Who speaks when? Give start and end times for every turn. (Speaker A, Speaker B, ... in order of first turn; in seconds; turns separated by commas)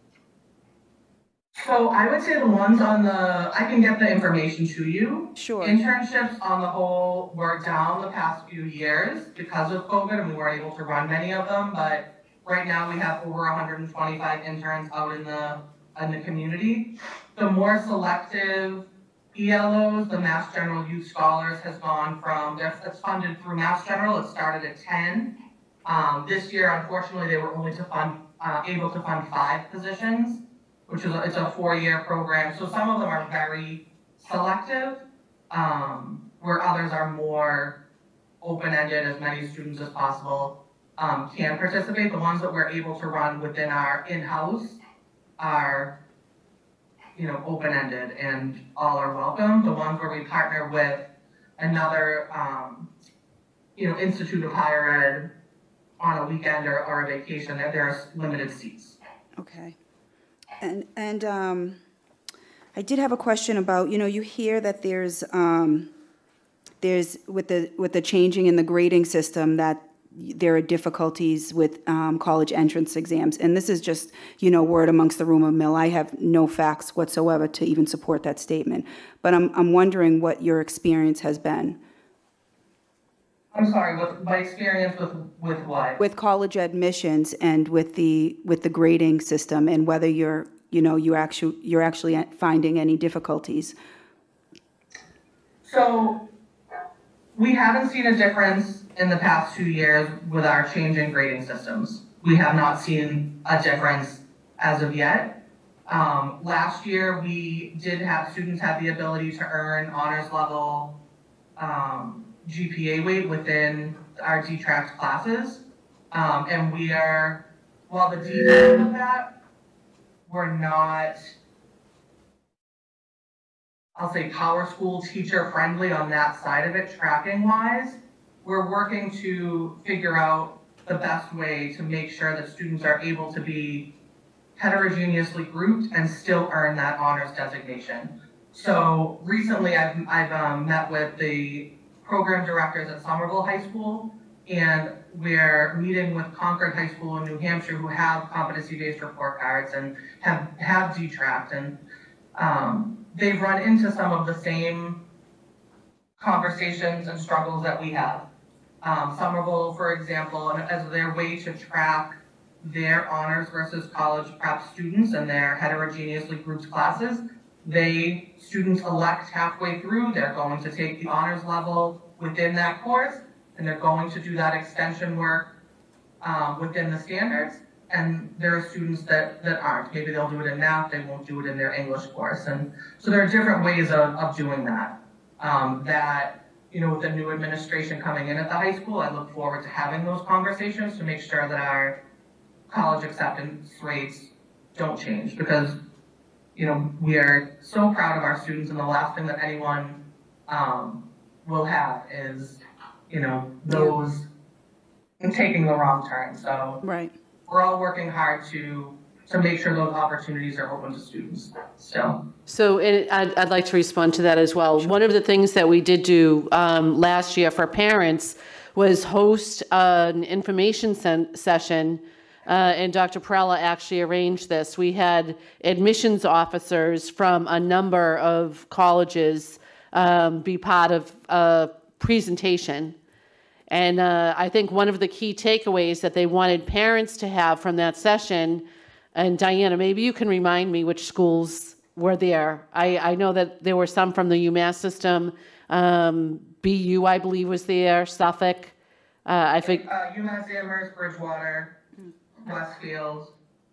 Speaker A: 1.6-25.3, Speaker B: 5.3-5.8, Speaker A: 25.8-37.8, Speaker A: 38.4-44.8, Speaker A: 45.4-45.9, Speaker A: 47.1-51.0, Speaker A: 51.6-52.9, Speaker A: 53.8-55.3, Speaker A: 56.0-59.0, Speaker B: 59.4-59.8, Speaker B: 60.6-61.8, Speaker B: 62.7-65.9, Speaker B: 66.8-81.8, Speaker A: 83.5-86.0, Speaker B: 86.0-93.8, Speaker A: 95.6-96.2, Speaker A: 97.3-105.3, Speaker A: 105.9-110.9, Speaker A: 111.6-119.3, Speaker A: 120.3-121.3, Speaker A: 124.0-133.8, Speaker A: 134.6-151.8, Speaker A: 152.3-155.0, Speaker A: 156.2-158.2, Speaker A: 158.8-175.5, Speaker A: 176.2-191.9, Speaker A: 192.7-195.8, Speaker A: 196.5-202.6, Speaker A: 203.1-204.2, Speaker B: 203.7-203.9, Speaker A: 205.2-206.8, Speaker B: 206.8-207.1, Speaker A: 207.5-212.2, Speaker C: 212.5-232.9, Speaker C: 233.7-248.7, Speaker C: 249.2-249.8, Speaker A: 249.6-251.7, Speaker A: 252.4-253.3